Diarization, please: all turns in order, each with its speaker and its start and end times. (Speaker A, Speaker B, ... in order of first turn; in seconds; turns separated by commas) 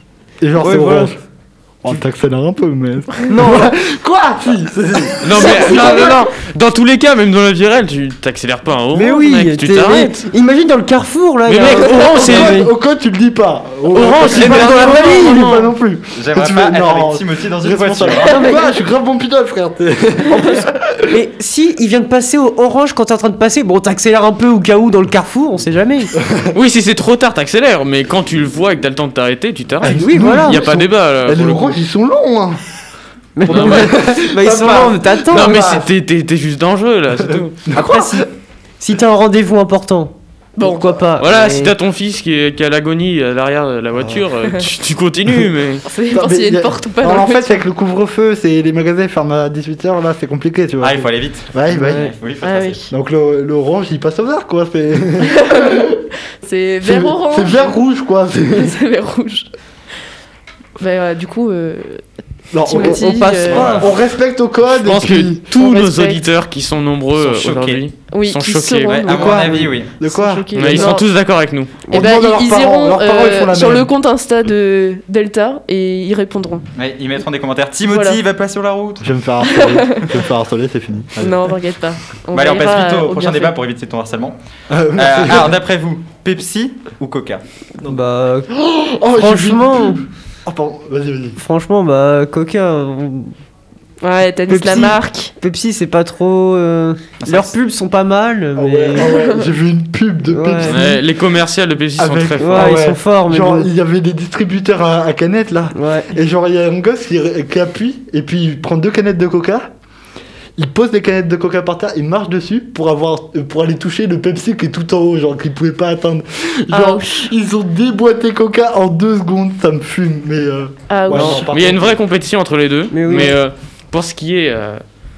Speaker A: 0.4-1.2, Speaker B: 0.6-1.1, Speaker A: 1.8-6.2, Speaker B: 3.3-3.7, Speaker C: 5.2-10.3, Speaker B: 8.9-12.7, Speaker C: 11.4-12.6, Speaker A: 11.7-20.7, Speaker C: 13.9-15.7, Speaker D: 14.2-14.8, Speaker B: 14.4-15.4, Speaker D: 16.1-18.5, Speaker B: 18.2-18.7, Speaker B: 20.3-26.1, Speaker C: 26.5-31.8, Speaker A: 29.8-32.6, Speaker B: 29.9-30.8, Speaker B: 33.4-35.8, Speaker A: 33.5-35.9, Speaker C: 33.5-34.0, Speaker C: 35.3-37.7, Speaker A: 37.2-38.3, Speaker B: 37.7-38.2, Speaker B: 38.8-41.8, Speaker E: 40.5-40.9, Speaker C: 41.2-45.8, Speaker A: 44.0-44.2, Speaker E: 45.8-47.6, Speaker A: 46.1-52.1, Speaker D: 50.8-52.8, Speaker B: 51.7-52.1, Speaker E: 52.4-52.9, Speaker A: 52.9-56.0, Speaker E: 55.3-55.9, Speaker E: 56.4-57.8, Speaker A: 56.8-58.7, Speaker E: 58.5-59.5, Speaker E: 60.8-62.0, Speaker A: 62.5-65.4, Speaker E: 62.6-63.8, Speaker B: 62.7-63.9, Speaker D: 63.5-63.9, Speaker C: 64.7-69.0, Speaker E: 65.5-66.2, Speaker D: 67.2-67.8, Speaker E: 68.1-71.1, Speaker D: 68.9-70.0, Speaker A: 69.1-71.0, Speaker C: 70.5-71.8, Speaker A: 71.9-73.9, Speaker E: 71.9-76.6, Speaker D: 76.7-79.1, Speaker E: 77.8-78.2, Speaker A: 79.0-81.3, Speaker E: 79.4-80.2, Speaker E: 81.2-83.6, Speaker D: 82.3-84.3, Speaker A: 84.7-85.5, Speaker D: 84.9-87.4, Speaker B: 87.8-88.5, Speaker A: 88.5-91.4, Speaker B: 89.1-90.0, Speaker B: 91.4-93.3, Speaker E: 94.0-95.3, Speaker B: 94.5-99.2, Speaker D: 97.2-97.5, Speaker A: 98.6-101.0, Speaker E: 99.0-99.5, Speaker B: 100.3-100.8, Speaker C: 100.7-102.8, Speaker A: 102.0-109.7, Speaker B: 102.4-103.7, Speaker B: 105.7-106.1, Speaker A: 110.6-122.0, Speaker E: 116.7-117.3, Speaker E: 120.9-121.5, Speaker B: 121.1-121.5, Speaker C: 121.3-124.8, Speaker B: 122.9-123.4